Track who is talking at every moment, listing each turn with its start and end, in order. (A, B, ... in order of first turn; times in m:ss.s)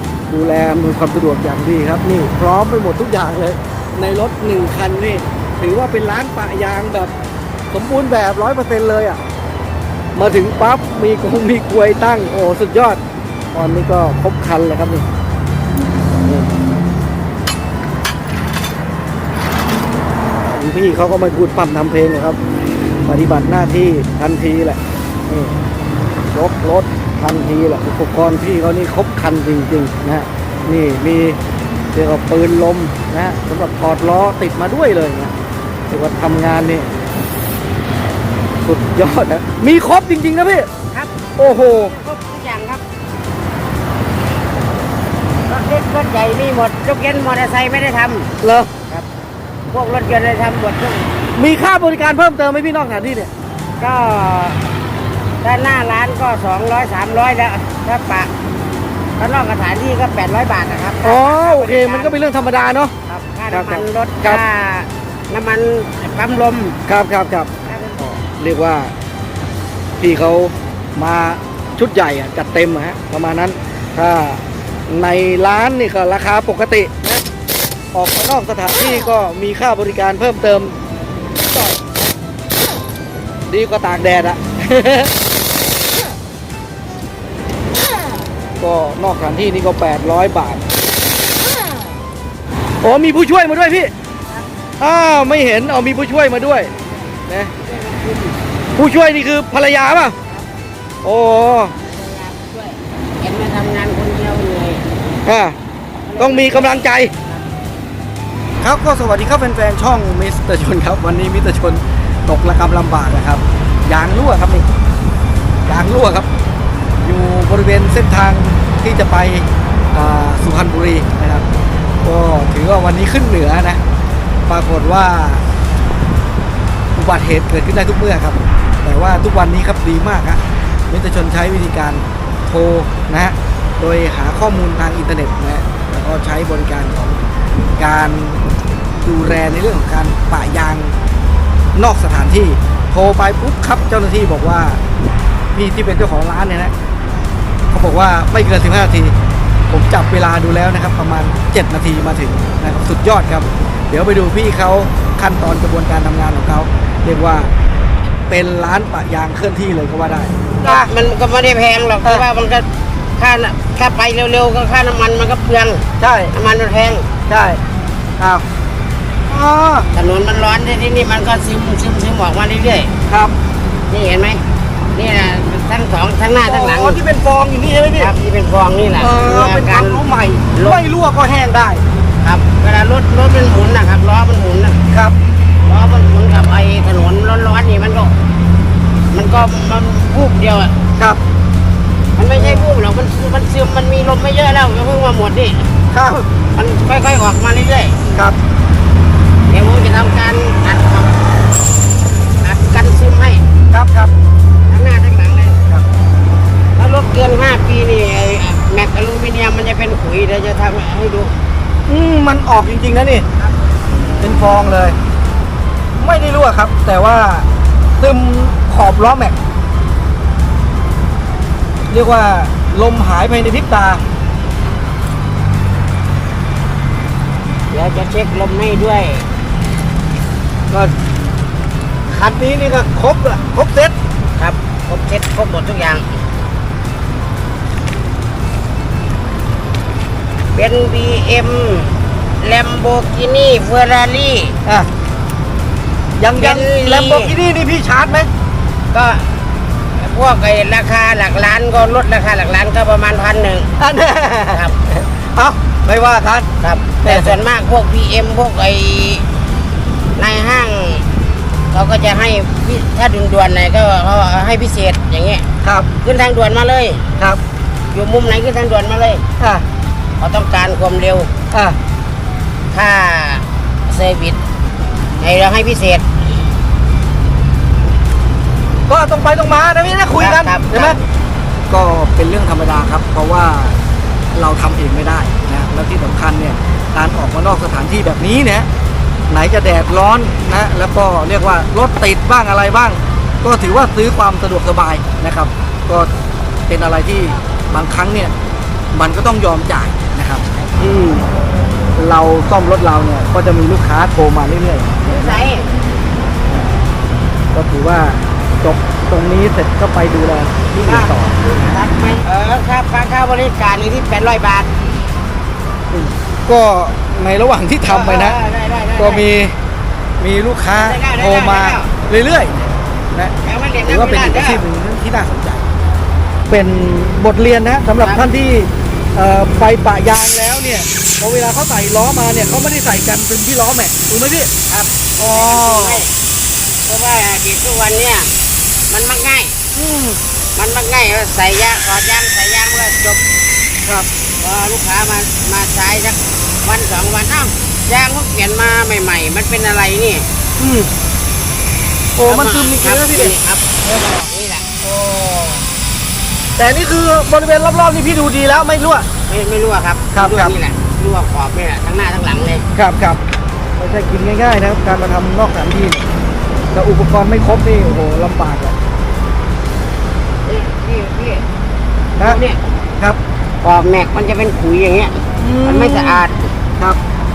0:00.3-0:07.1 A
0:07.7-0:09.2 A
0:10.1-0:13.0 A
0:13.5-0:15.0 A
0:20.4-0:22.4 A
0:23.0-0:25.6 A
0:26.3-0:31.4 A
0:31.9-0:35.3 A
0:35.9-0:36.9 A
0:38.6-0:40.7 A
0:40.9-0:42.8 B
0:41.4-0:41.9 A
0:45.4-0:48.3 B
0:48.4-0:48.7 A
0:49.7-0:51.1 B
0:51.4-0:53.3 A
0:53.8-0:54.7 B
0:55.4-0:58.3 B
0:59.2-1:02.2 B
1:01.0-1:02.9 A
1:03.1-1:06.8 B
1:03.5-1:04.4 A
1:06.9-1:08.9 A
1:07.7-1:08.0 B
1:10.0-1:17.2 A
1:17.9-1:20.8 A
1:23.5-1:25.1 A
1:28.6-1:30.6 A
1:32.8-1:33.9 A
1:34.8-1:36.7 A
1:37.3-1:37.5 A
1:37.6-1:38.4 B
1:38.8-1:40.2 A
1:41.0-1:41.8 A
1:41.9-1:44.8 B
1:45.3-1:45.6 A
1:46.0-1:47.5 B
1:46.2-1:47.1 A
1:48.6-1:54.7 A
1:55.7-1:56.3 A
1:57.0-2:01.4 A
2:02.0-2:03.8 A
2:04.5-2:05.4 A
2:07.0-2:17.2 A
2:17.8-2:18.4 A
2:19.0-2:21.0 A
2:21.7-2:24.8 A
2:25.5-2:26.7 A
2:27.7-2:29.1 A
2:29.7-2:37.5 A
2:38.3-2:40.9 A
2:40.6-2:47.1 B
2:46.0-2:46.3 A
2:47.3-2:47.6 A
2:48.2-2:48.4 A
2:49.3-2:49.9 A
2:49.9-2:52.9 B
2:53.1-2:53.3 A
2:53.9-2:57.0 B
2:56.4-2:58.1 A
2:58.0-3:00.0 B
2:59.0-3:01.8 A
3:00.5-3:00.8 B
3:02.2-3:04.8 B
3:04.9-3:05.2 A
3:05.6-3:08.2 B
3:09.1-3:10.8 B
3:12.2-3:15.7 B
3:12.3-3:12.7 A
3:15.9-3:16.2 A
3:16.5-3:18.2 B
3:19.5-3:21.2 B
3:22.4-3:23.4 B
3:23.7-3:24.1 A
3:24.7-3:25.6 B
3:26.8-3:31.4 B
3:31.9-3:33.2 A
3:34.2-3:35.0 A
3:36.0-3:37.4 A
3:38.0-3:39.4 A
3:41.9-3:44.0 A
3:47.7-3:49.2 B
3:52.1-3:53.9 A
3:54.4-3:56.1 B
4:00.5-4:04.6 B
4:06.2-4:08.3 A
4:06.4-4:07.3 B
4:08.9-4:09.4 B
4:10.0-4:13.7 B
4:13.8-4:16.5 A
4:14.5-4:14.8 B
4:16.6-4:19.2 B
4:17.0-4:17.3 A
4:20.2-4:21.0 B
4:21.7-4:25.4 B
4:25.6-4:25.9 A
4:26.0-4:27.0 B
4:27.9-4:29.2 B
4:29.4-4:29.6 A
4:30.2-4:31.3 B
4:31.5-4:31.8 A
4:32.7-4:34.4 B
4:35.2-4:36.4 B
4:38.9-4:41.0 A
4:40.2-4:41.0 B
4:41.7-4:43.8 A
4:44.3-4:48.7 A
4:49.3-4:56.1 A
4:56.7-4:58.3 A
4:58.9-5:01.2 A
5:02.0-5:05.4 A
5:05.1-5:05.7 B
5:07.5-5:11.4 A
5:10.8-5:14.8 B
5:15.9-5:18.4 A
5:17.9-5:19.2 B
5:19.0-5:19.6 A
5:20.2-5:25.6 A
5:20.8-5:21.9 B
5:23.4-5:24.6 B
5:26.5-5:34.5 A
5:28.0-5:28.2 B
5:34.7-5:36.1 B
5:35.2-5:36.0 A
5:36.8-5:38.3 B
5:38.9-5:39.6 B
5:39.8-5:40.2 A
5:40.6-5:43.2 B
5:44.4-5:50.3 B
5:50.6-5:50.9 A
5:52.2-5:53.3 A
5:52.2-5:54.7 B
5:54.8-5:55.7 A
5:56.6-5:59.1 A
5:59.3-6:02.6 B
6:00.1-6:00.5 A
6:02.7-6:03.2 A
6:03.8-6:06.1 A
6:06.7-6:08.8 A
6:10.4-6:11.5 B
6:12.2-6:12.7 B
6:13.6-6:16.5 B
6:15.4-6:16.2 A